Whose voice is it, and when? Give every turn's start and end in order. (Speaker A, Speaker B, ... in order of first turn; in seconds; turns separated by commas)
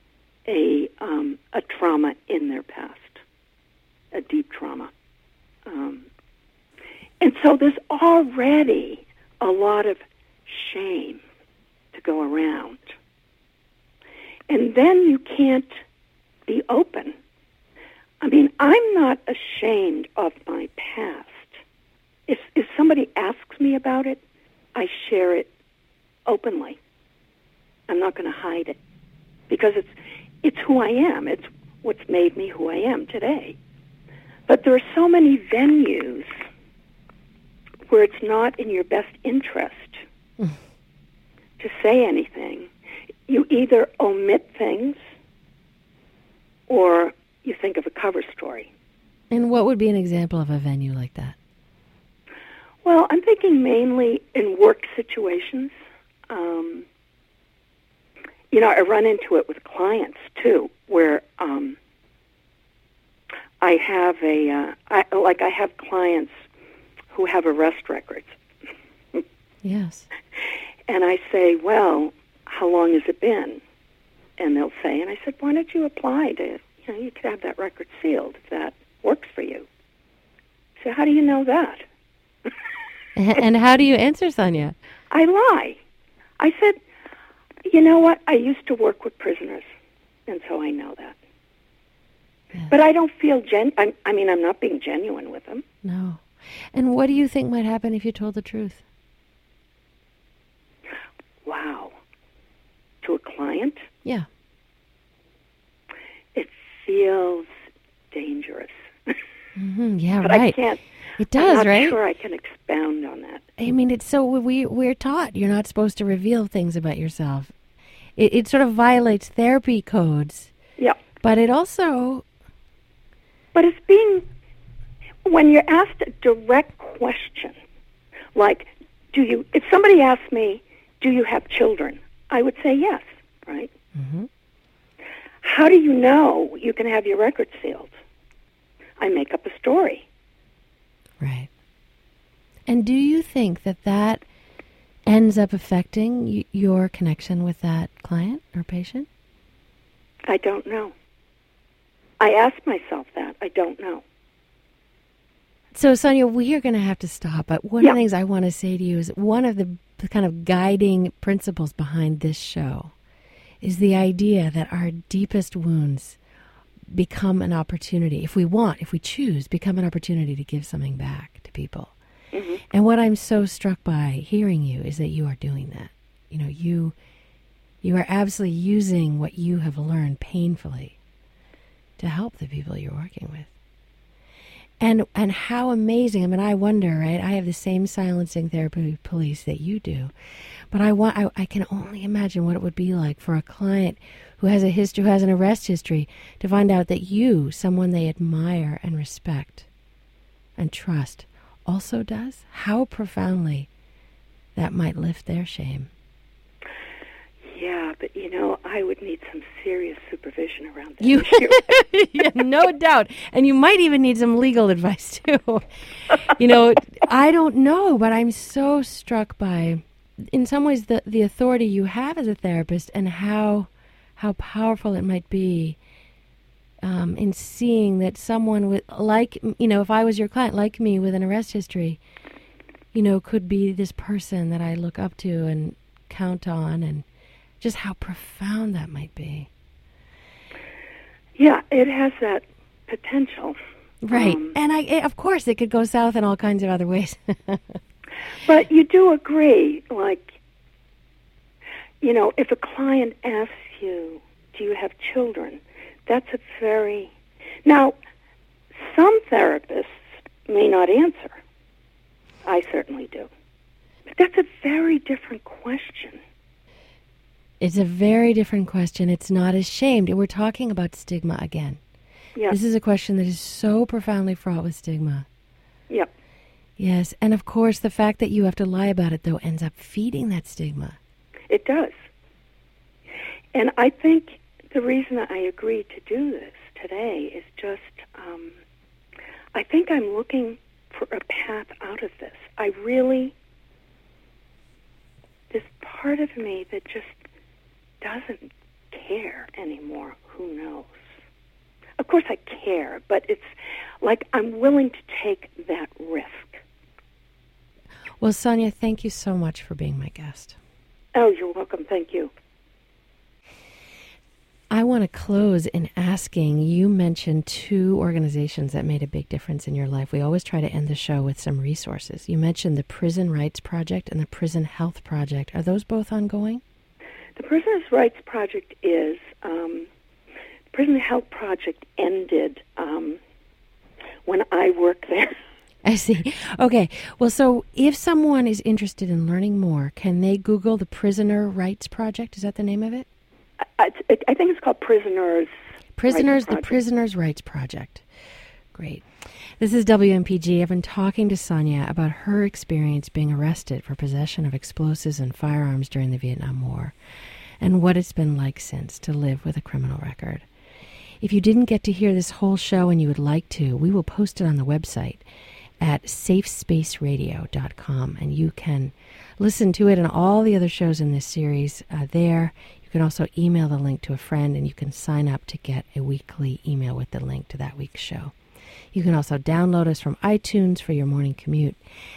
Speaker A: 0.5-3.2, Speaker A: 4.1-4.9, Speaker A: 5.6-6.1, Speaker A: 7.2-11.2, Speaker A: 11.9-12.9, Speaker A: 14.5-15.7, Speaker A: 16.4-17.1, Speaker A: 18.2-21.6, Speaker A: 22.3-24.2, Speaker A: 24.7-25.5, Speaker A: 26.2-26.8, Speaker A: 27.9-28.8, Speaker A: 29.5-33.6, Speaker A: 34.5-36.4, Speaker A: 37.9-40.0, Speaker A: 41.6-42.7, Speaker A: 43.3-45.0, Speaker A: 46.7-48.7, Speaker B: 49.3-51.4, Speaker A: 52.8-55.7, Speaker A: 56.3-56.9, Speaker A: 58.5-61.8, Speaker A: 63.6-66.3, Speaker A: 67.1-68.4, Speaker B: 69.6-70.1, Speaker A: 70.9-73.6, Speaker A: 74.4-79.7, Speaker A: 80.8-81.8, Speaker B: 83.2-84.7, Speaker A: 85.1-85.8, Speaker A: 86.4-86.8, Speaker A: 87.6-89.7, Speaker A: 90.3-91.2, Speaker A: 92.7-95.6, Speaker B: 95.8-98.8, Speaker A: 101.4-101.9, Speaker A: 103.0-103.8, Speaker A: 106.3-107.5, Speaker A: 108.1-109.2, Speaker B: 109.5-110.6, Speaker A: 110.2-110.8, Speaker B: 111.2-112.0, Speaker A: 111.3-113.5, Speaker B: 113.6-117.5, Speaker B: 118.2-120.5, Speaker B: 121.2-122.2, Speaker A: 123.5-124.3, Speaker A: 125.2-127.5, Speaker A: 128.3-133.7, Speaker B: 133.9-134.3, Speaker A: 135.4-137.9, Speaker A: 139.0-140.1, Speaker B: 141.2-141.5, Speaker B: 142.7-144.2, Speaker B: 145.1-149.1, Speaker A: 150.3-150.9, Speaker A: 152.2-154.0, Speaker B: 155.7-162.9, Speaker B: 163.6-166.2, Speaker B: 166.9-171.9, Speaker A: 172.3-172.6, Speaker B: 172.7-176.9, Speaker B: 177.8-181.0, Speaker B: 182.0-183.5, Speaker B: 184.8-190.1, Speaker B: 190.7-199.7, Speaker B: 200.6-203.7, Speaker B: 204.6-205.9, Speaker A: 207.4-211.6, Speaker B: 211.0-225.8, Speaker B: 226.8-232.0, Speaker B: 232.9-237.0, Speaker B: 237.6-239.5, Speaker A: 241.3-243.6, Speaker B: 244.0-247.8, Speaker A: 244.1-244.6, Speaker A: 248.4-250.3, Speaker A: 252.0-257.9, Speaker A: 258.7-261.4, Speaker A: 262.4-263.3, Speaker A: 264.1-266.2, Speaker B: 267.6-271.8, Speaker B: 272.5-275.3, Speaker B: 276.8-281.0, Speaker A: 281.5-282.0, Speaker A: 283.5-288.6, Speaker A: 289.5-293.4, Speaker A: 295.5-297.2, Speaker A: 298.0-301.1, Speaker A: 302.0-306.6, Speaker B: 308.2-310.6, Speaker A: 311.1-312.3, Speaker B: 314.7-326.6, Speaker A: 327.4-329.9, Speaker A: 330.7-333.2, Speaker A: 334.2-335.3, Speaker B: 335.8-343.1, Speaker A: 343.6-345.5, Speaker B: 346.0-348.0, Speaker A: 346.1-346.8, Speaker B: 348.7-349.1, Speaker B: 349.6-356.9, Speaker B: 357.6-360.4, Speaker B: 361.2-365.2, Speaker B: 365.8-378.3, Speaker B: 378.9-381.8